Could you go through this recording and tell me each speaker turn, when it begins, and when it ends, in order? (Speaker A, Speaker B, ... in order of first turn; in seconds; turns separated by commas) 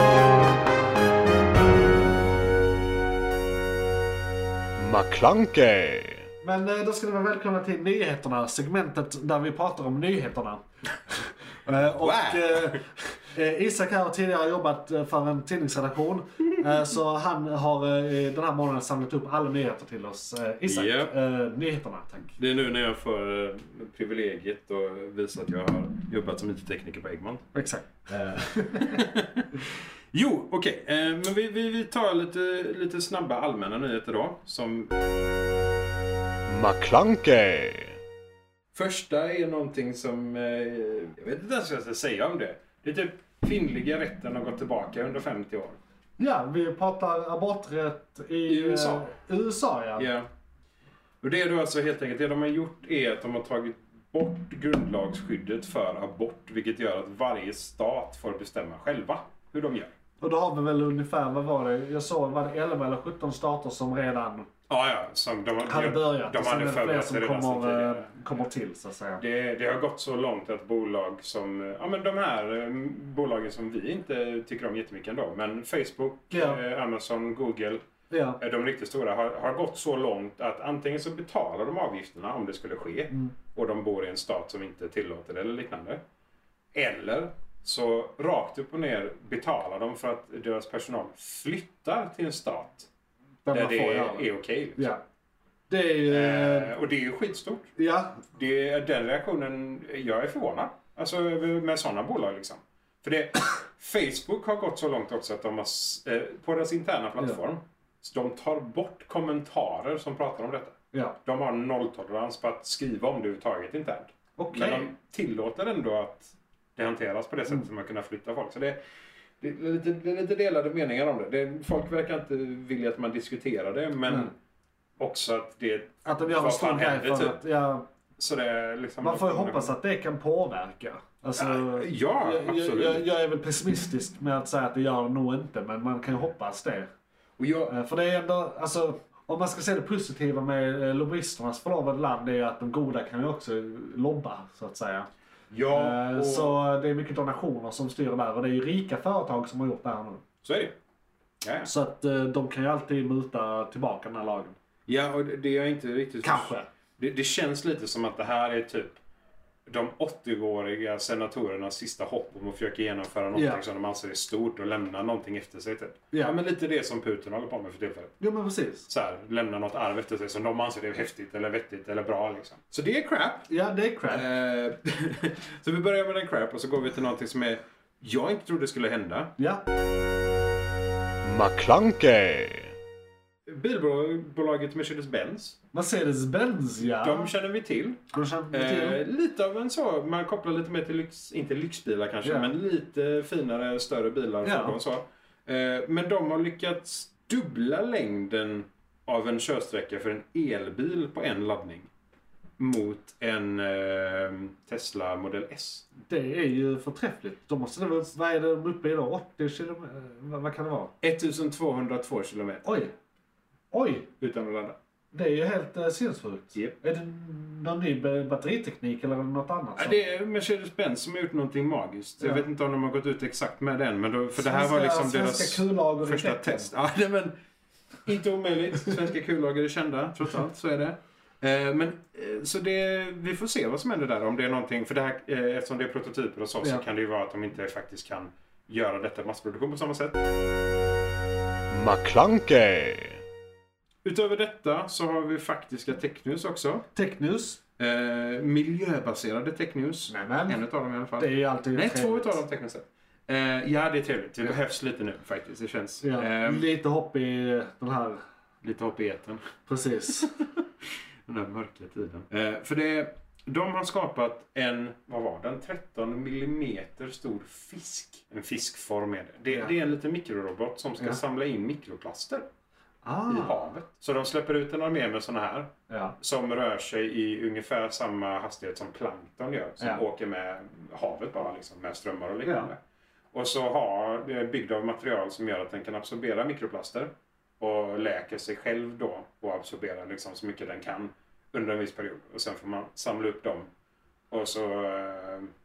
Speaker A: 4.8-6.2, Speaker B: 6.4-22.4, Speaker A: 12.0-12.8, Speaker A: 20.6-21.1, Speaker A: 22.4-27.4, Speaker B: 27.5-29.0, Speaker A: 28.7-34.9, Speaker C: 36.5-37.9, Speaker A: 38.7-45.8, Speaker B: 46.2-50.1, Speaker A: 48.5-49.1, Speaker A: 50.0-50.3, Speaker A: 51.2-59.9, Speaker B: 60.2-64.5, Speaker A: 64.7-68.1, Speaker B: 65.6-69.2, Speaker A: 69.2-77.8, Speaker B: 76.3-76.6, Speaker B: 78.1-78.4, Speaker A: 78.4-86.0, Speaker A: 86.7-92.9, Speaker B: 93.5-95.0, Speaker A: 93.5-94.9, Speaker B: 95.7-96.7, Speaker A: 96.1-97.7, Speaker B: 97.8-98.2, Speaker A: 98.3-118.8, Speaker B: 114.4-114.9, Speaker A: 119.4-124.3, Speaker B: 124.1-124.3, Speaker A: 125.0-127.4, Speaker B: 126.0-127.9, Speaker A: 128.2-129.7, Speaker B: 129.0-136.9, Speaker A: 131.4-133.0, Speaker A: 137.4-137.7, Speaker B: 137.7-145.1, Speaker A: 145.5-146.6, Speaker B: 145.7-150.2, Speaker A: 150.4-150.7, Speaker A: 151.4-151.7, Speaker B: 151.6-154.6, Speaker A: 154.9-159.0, Speaker B: 156.2-156.7, Speaker A: 159.7-168.2, Speaker B: 163.3-163.6, Speaker B: 166.1-166.4, Speaker B: 168.2-168.9, Speaker A: 168.9-173.5, Speaker B: 173.5-174.2, Speaker A: 174.1-179.3, Speaker C: 181.2-182.7, Speaker A: 183.5-185.6, Speaker B: 185.7-187.3, Speaker A: 186.8-201.9, Speaker B: 188.1-189.0, Speaker B: 192.2-192.5, Speaker B: 194.4-194.8, Speaker A: 202.6-205.9, Speaker B: 206.1-210.9, Speaker A: 211.0-212.6, Speaker B: 212.6-212.9, Speaker B: 213.7-214.1, Speaker A: 214.2-214.8, Speaker B: 215.1-220.0, Speaker A: 219.8-227.3, Speaker B: 222.2-222.4, Speaker B: 224.3-226.7, Speaker A: 228.0-240.3, Speaker A: 241.7-242.1, Speaker C: 241.9-243.1, Speaker A: 244.0-246.9, Speaker B: 246.9-247.6, Speaker A: 247.8-256.7, Speaker B: 250.1-250.6, Speaker B: 251.2-252.4, Speaker B: 256.0-258.2, Speaker A: 258.6-259.4, Speaker B: 259.7-260.3, Speaker A: 260.2-260.6, Speaker A: 261.3-272.4, Speaker B: 273.0-273.6, Speaker A: 273.3-282.8, Speaker B: 275.9-276.1, Speaker B: 279.8-280.0, Speaker B: 282.4-282.7, Speaker A: 283.3-293.7, Speaker A: 294.3-295.5